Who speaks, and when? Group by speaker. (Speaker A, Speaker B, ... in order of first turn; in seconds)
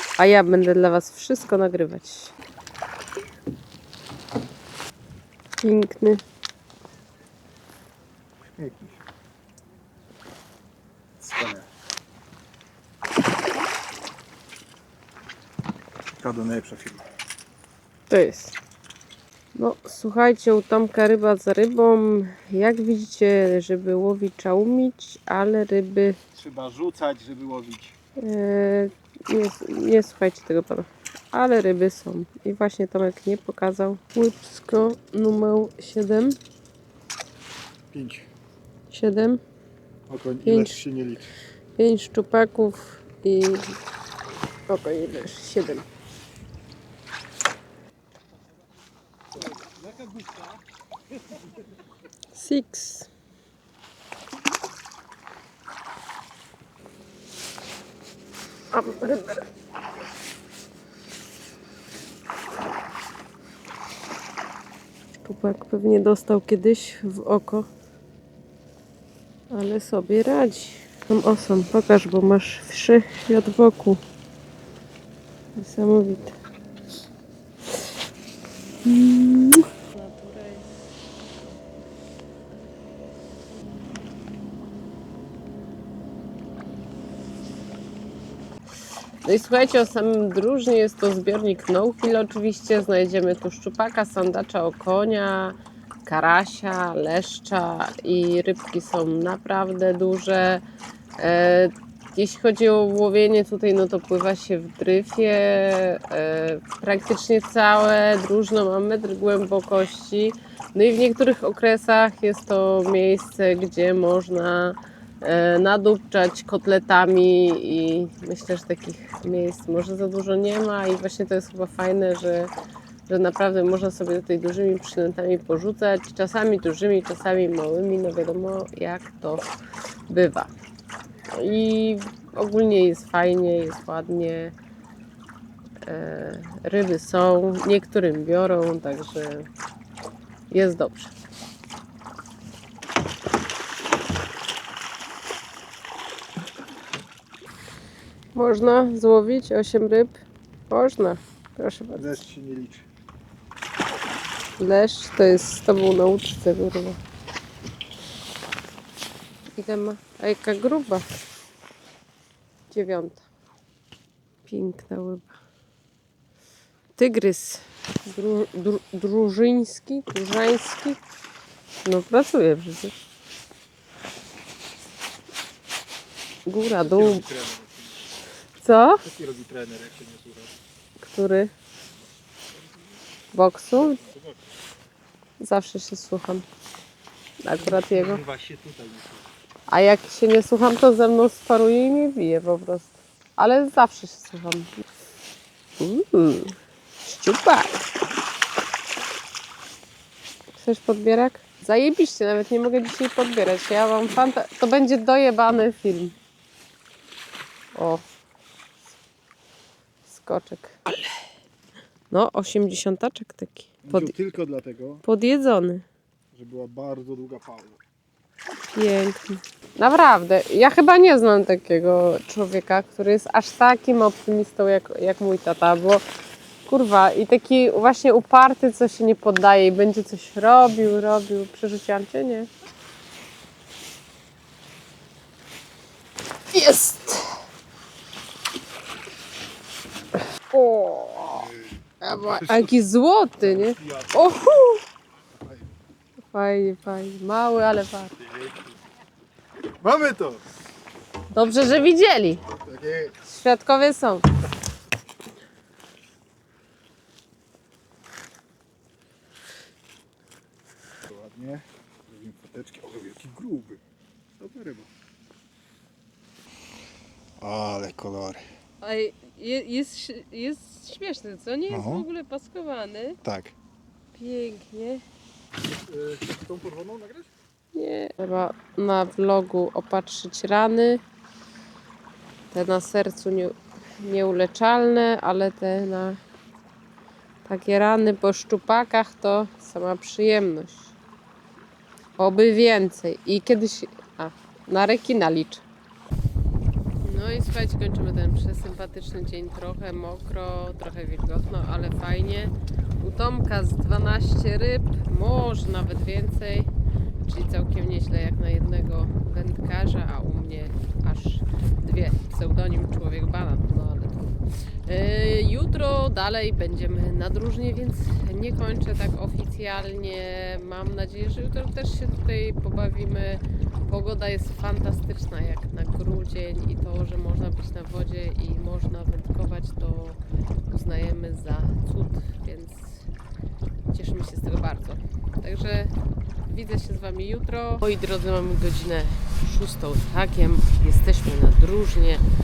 Speaker A: 0.2-2.4, 5.6-6.2, 18.1-18.6, 19.6-26.2, 28.2-36.4, 38.9-39.4, 40.4-40.8, 41.8-43.8, 44.7-45.9, 52.3-53.1, 58.7-59.5, 65.2-67.7, 69.5-74.0, 75.6-76.4, 78.8-80.7, 89.2-100.6, 101.2-122.5, 123.1-129.5, 130.1-130.5, 131.3-134.5, 135.8-139.5, 140.5-141.1, 148.3-150.2, 150.7-152.1, 154.6-157.0, 159.6-161.1, 162.7-163.2, 164.5-165.3, 167.0-171.0, 171.8-173.0, 176.5-177.2, 178.6-179.0, 181.0-181.5, 183.3-184.0, 185.4-186.5, 187.4-188.2, 189.7-194.7, 195.8-197.8, 200.6-206.2, 207.8-208.0, 210.1-211.0, 212.1-214.1, 215.0-215.8, 218.8-226.0, 226.7-232.5, 236.5-237.4, 240.5-241.5, 242.0-244.8, 246.3-248.1, 251.3-252.4, 253.3-254.3, 268.8-273.2, 274.1-275.0, 277.7-281.0, 282.5-286.2, 287.5-290.9, 292.2-295.6, 297.0-306.7, 307.2-314.4, 314.9-333.1, 333.9-335.9, 336.5-342.2
Speaker B: 8.6-9.0, 11.2-11.7, 16.2-17.1, 26.4-28.0, 37.9-38.3, 40.1-41.3, 49.6-50.6, 151.9-152.8, 176.7-178.1, 179.0-180.5, 183.8-184.4, 187.6-189.3, 213.8-215.0, 216.3-217.8, 241.3-242.8, 243.4-244.3, 245.3-245.7, 248.2-248.8, 249.8-250.4, 252.6-253.1, 261.1-263.8, 264.4-264.9, 267.4-268.4, 271.7-272.1, 273.2-273.5, 275.7-277.3